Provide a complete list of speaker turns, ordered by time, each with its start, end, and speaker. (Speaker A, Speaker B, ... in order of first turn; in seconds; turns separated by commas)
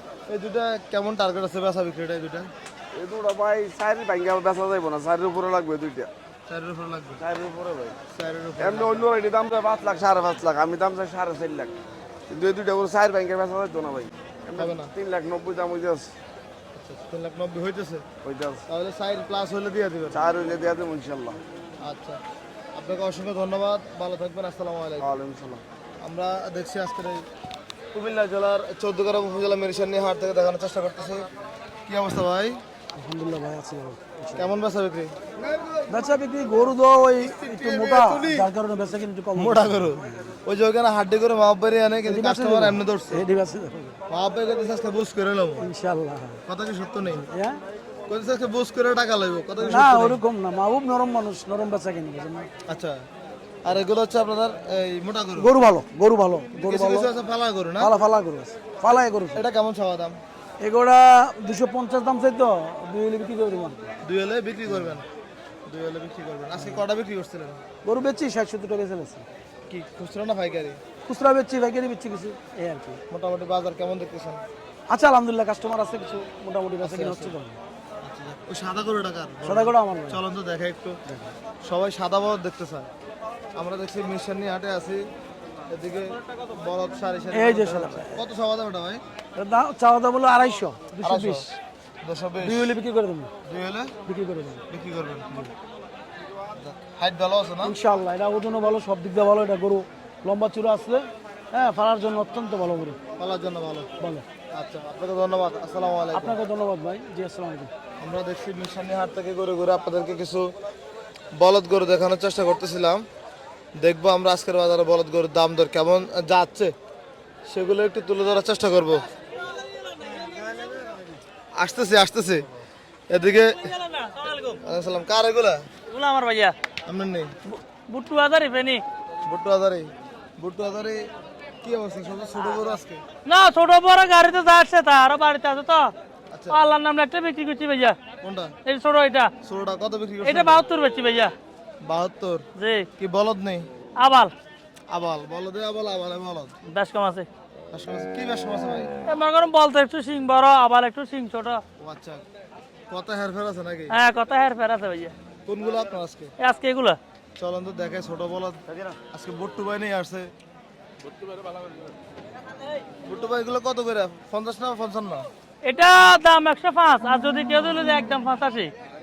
Speaker A: 0.3-2.5, Speaker B: 2.9-6.1, Speaker A: 6.5-7.2, Speaker B: 7.2-8.0, Speaker A: 8.1-9.1, Speaker B: 8.6-11.7, Speaker B: 12.3-16.1, Speaker A: 14.6-14.9, Speaker A: 16.8-18.1, Speaker B: 18.2-18.6, Speaker A: 18.7-20.2, Speaker B: 20.1-21.4, Speaker A: 21.8-22.2, Speaker A: 22.7-25.1, Speaker B: 25.0-25.6, Speaker A: 26.0-27.2, Speaker A: 27.9-31.3, Speaker A: 31.9-32.6, Speaker C: 33.0-34.5, Speaker A: 34.4-35.1, Speaker C: 35.9-40.0, Speaker A: 37.2-38.5, Speaker A: 39.3-43.2, Speaker C: 42.1-44.0, Speaker A: 44.1-45.7, Speaker C: 45.6-46.4, Speaker A: 46.5-47.3, Speaker C: 47.2-47.6, Speaker A: 48.1-50.2, Speaker C: 49.6-52.5, Speaker A: 52.7-53.0, Speaker A: 53.6-55.5, Speaker C: 55.4-57.1, Speaker A: 56.5-57.9, Speaker C: 57.8-59.4, Speaker A: 59.3-60.2, Speaker C: 60.6-63.9, Speaker A: 64.0-65.1, Speaker A: 65.7-67.6, Speaker C: 67.8-69.2, Speaker A: 69.7-70.8, Speaker C: 71.1-73.0, Speaker A: 73.1-74.4, Speaker C: 74.9-77.6, Speaker A: 76.8-77.4, Speaker A: 78.0-81.0, Speaker C: 79.4-80.2, Speaker C: 81.1-81.3, Speaker A: 81.6-82.9, Speaker A: 83.5-85.0, Speaker A: 85.7-89.0, Speaker C: 87.3-88.1, Speaker C: 89.4-91.5, Speaker A: 91.0-92.8, Speaker C: 92.5-93.3, Speaker A: 93.4-93.9, Speaker C: 94.1-94.6, Speaker A: 94.7-95.5, Speaker A: 96.5-97.8, Speaker C: 97.6-103.0, Speaker A: 103.2-103.9, Speaker C: 104.0-104.2, Speaker A: 104.5-106.5, Speaker C: 106.1-107.7, Speaker A: 108.0-110.5, Speaker A: 111.4-113.0, Speaker A: 113.8-116.7, Speaker A: 117.5-119.1, Speaker A: 121.6-122.5, Speaker A: 123.1-123.6, Speaker D: 123.7-124.6, Speaker A: 124.6-125.6, Speaker D: 125.9-126.5, Speaker A: 126.9-127.3, Speaker D: 127.5-128.8, Speaker A: 129.2-131.1, Speaker A: 131.6-133.0, Speaker D: 133.2-135.9, Speaker A: 136.3-136.6, Speaker D: 136.5-138.0, Speaker A: 138.2-138.6, Speaker D: 138.7-139.3, Speaker A: 139.4-140.7, Speaker D: 140.2-141.3, Speaker A: 141.8-142.4, Speaker D: 142.6-142.9, Speaker A: 143.0-143.7, Speaker D: 144.0-144.3, Speaker A: 144.9-146.5, Speaker D: 146.7-147.2, Speaker A: 147.7-148.9, Speaker D: 149.1-151.6, Speaker A: 151.8-152.2, Speaker A: 152.9-153.9, Speaker D: 153.9-155.1, Speaker A: 155.4-156.3, Speaker D: 156.4-157.0, Speaker A: 157.4-158.6, Speaker A: 159.1-160.3, Speaker A: 163.1-165.3, Speaker D: 165.6-168.7